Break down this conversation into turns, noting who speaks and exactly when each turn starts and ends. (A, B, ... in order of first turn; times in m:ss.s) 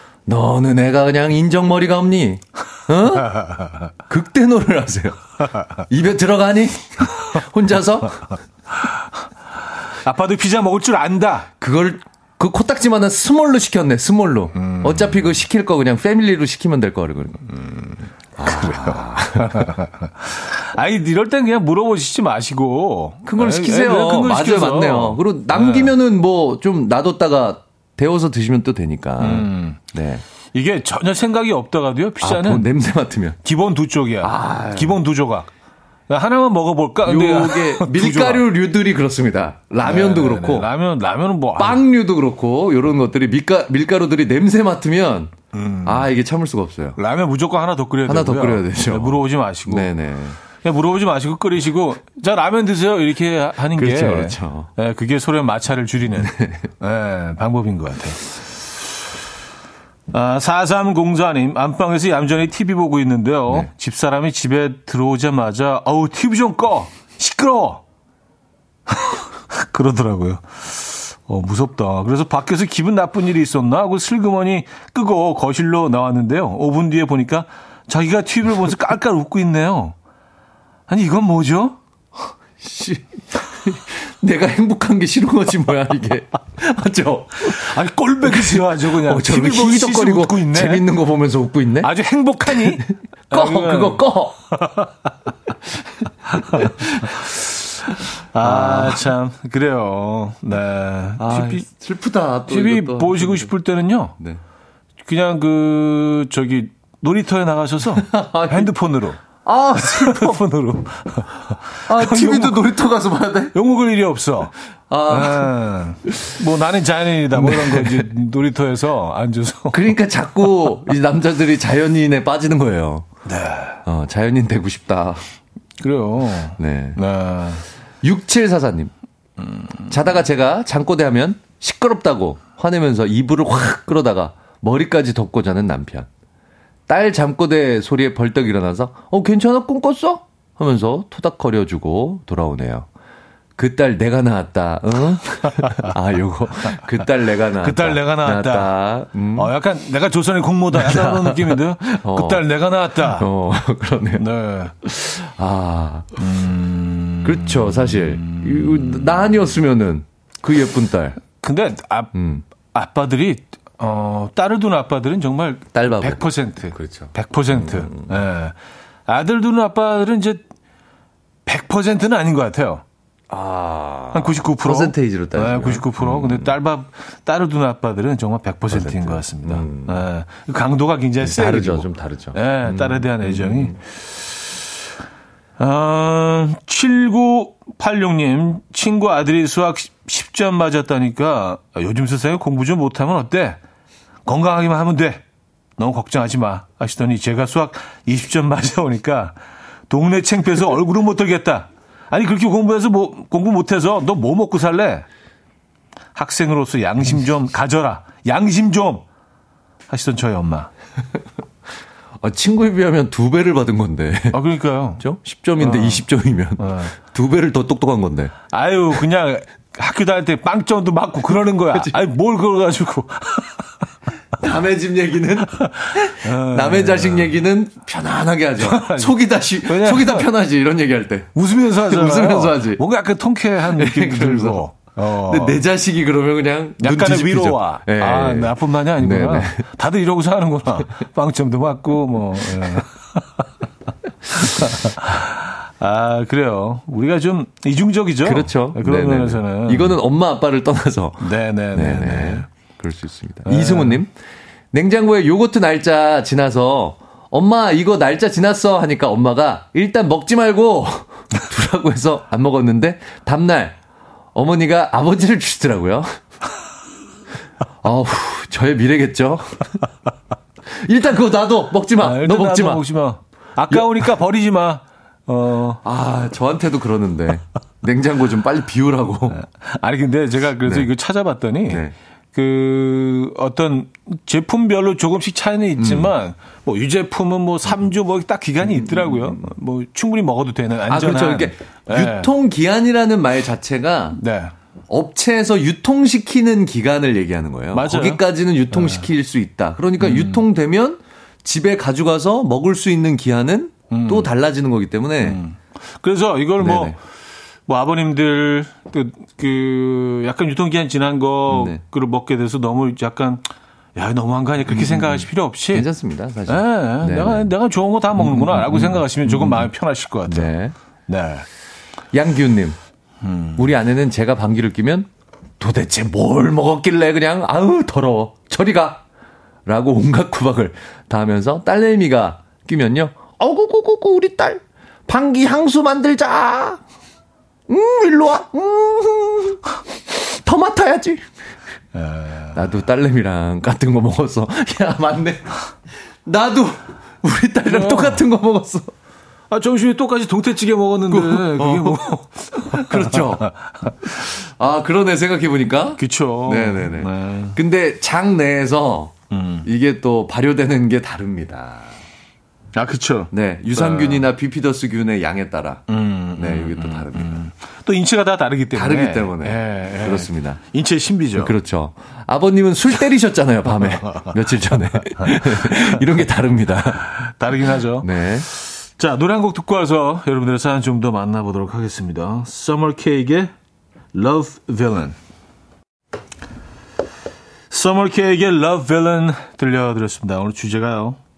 0:00.3-0:03.4 A
0:03.3-0:03.7 B
0:04.1-0:05.2 A
0:05.7-0:08.3 A
0:10.0-0:11.5 B
0:11.6-0:17.6 A
0:14.6-0:15.2 B
0:17.8-0:25.9 B
0:18.4-0:19.7 A
0:23.2-0:30.2 A
0:29.2-0:29.8 B
0:30.5-0:32.7 B
0:32.2-0:33.4 A
0:33.4-0:35.5 B
0:34.2-0:35.0 A
0:36.1-0:38.4 B
0:37.0-0:40.7 A
0:39.8-0:41.8 B
0:41.6-0:45.3 A
0:45.5-0:46.1 B
0:45.8-0:47.0 A
0:47.0-0:49.9 B
0:48.0-0:50.4 A
0:50.5-0:58.2 B
0:53.7-0:54.7 A
0:56.2-0:56.6 A
1:00.1-1:07.8 B
1:08.9-1:19.9 B
1:20.9-1:21.8 B
1:22.6-1:27.7 A
1:27.4-1:30.8 B
1:28.2-1:31.9 A
1:31.8-1:34.9 B
1:32.5-1:34.4 A
1:36.3-1:41.6 B
1:36.5-1:37.2 A
1:38.4-1:39.0 A
1:41.2-1:43.5 A
1:42.5-1:44.2 B
1:45.0-1:49.2 B
1:48.0-1:48.7 A
1:49.2-1:50.4 A
1:49.8-1:52.6 B
1:51.9-1:53.5 A
1:53.5-1:54.5 B
1:54.9-1:55.5 A
1:55.1-1:59.9 B
1:57.3-1:58.1 A
1:59.7-2:03.0 A
2:03.2-2:03.8 B
2:03.8-2:05.2 A
2:05.8-2:07.6 B
2:06.6-2:07.0 A
2:08.0-2:08.9 A
2:09.5-2:09.9 B
2:09.9-2:16.1 A
2:16.9-2:22.9 A
2:23.6-2:29.5 A
2:25.6-2:25.9 B
2:27.6-2:28.7 B
2:29.3-2:33.3 B
2:30.7-2:32.4 A
2:33.1-2:34.2 A
2:34.2-2:34.7 B
2:34.8-2:36.1 A
2:36.2-2:39.3 B
2:37.2-2:41.2 A
2:41.4-2:42.1 B
2:42.1-2:42.4 A
2:42.7-2:48.6 B
2:45.7-2:48.1 A
2:49.1-2:50.4 B
2:51.5-2:52.8 B
2:53.3-2:56.5 A
2:54.1-3:03.8 B
2:58.7-3:00.0 A
3:01.2-3:03.8 A
3:05.6-3:13.6 B
3:14.2-3:15.2 B
3:15.8-3:19.4 B
3:19.9-3:25.0 B
3:26.1-3:29.0 B
3:29.9-3:30.7 B
3:32.2-3:34.4 A
3:34.3-3:35.0 B
3:35.0-3:38.3 A
3:35.6-3:36.0 B
3:36.6-3:36.9 B
3:38.5-3:43.6 B
3:44.4-3:52.8 A
3:45.6-3:47.4 B
3:48.6-3:50.3 B
3:51.3-3:55.6 B
3:53.7-3:54.6 A
3:55.2-3:59.6 A
3:56.8-4:03.4 B
4:04.3-4:10.0 B
4:08.2-4:14.1 A
4:11.2-4:12.5 B
4:13.4-4:14.0 B
4:14.7-4:23.8 A
4:24.3-4:26.1 A
4:27.8-4:29.7 A
4:30.8-4:32.8 A
4:32.0-4:35.8 B
4:35.8-4:39.4 A
4:39.3-4:52.3 B
4:40.6-4:40.9 A
4:41.7-4:41.9 A
4:45.8-4:46.1 A
4:48.7-4:49.4 A
4:50.9-4:54.2 A
4:54.1-4:54.5 B
4:54.9-5:05.4 A
4:57.7-4:59.1 B
5:00.0-5:00.4 B
5:03.9-5:04.3 B
5:05.2-5:07.0 B
5:06.6-5:06.9 A
5:07.7-5:15.9 B
5:11.5-5:11.8 A
5:14.7-5:17.5 A
5:16.5-5:20.5 B
5:18.2-5:19.7 A
5:20.3-5:20.7 A
5:21.1-5:21.4 B
5:22.1-5:22.8 A
5:23.2-5:23.7 B
5:23.6-5:25.1 A
5:25.6-5:29.0 A
5:29.6-5:36.8 A
5:37.7-5:39.6 A
5:40.1-5:41.2 A
5:41.9-5:42.6 B
5:42.5-5:45.7 A
5:46.2-5:48.9 A
5:47.6-5:48.2 B
5:49.5-5:54.1 B
5:51.1-5:52.0 A
5:52.5-5:59.1 A
5:56.0-5:57.6 B
5:59.3-5:59.7 B
5:59.6-6:02.0 A
6:02.7-6:04.3 B
6:03.3-6:07.4 A
6:05.9-6:11.5 B
6:08.7-6:10.6 A
6:11.4-6:17.1 A
6:14.0-6:16.0 B
6:17.1-6:23.5 B
6:18.0-6:18.5 A
6:24.1-6:25.2 B
6:27.7-6:31.2 B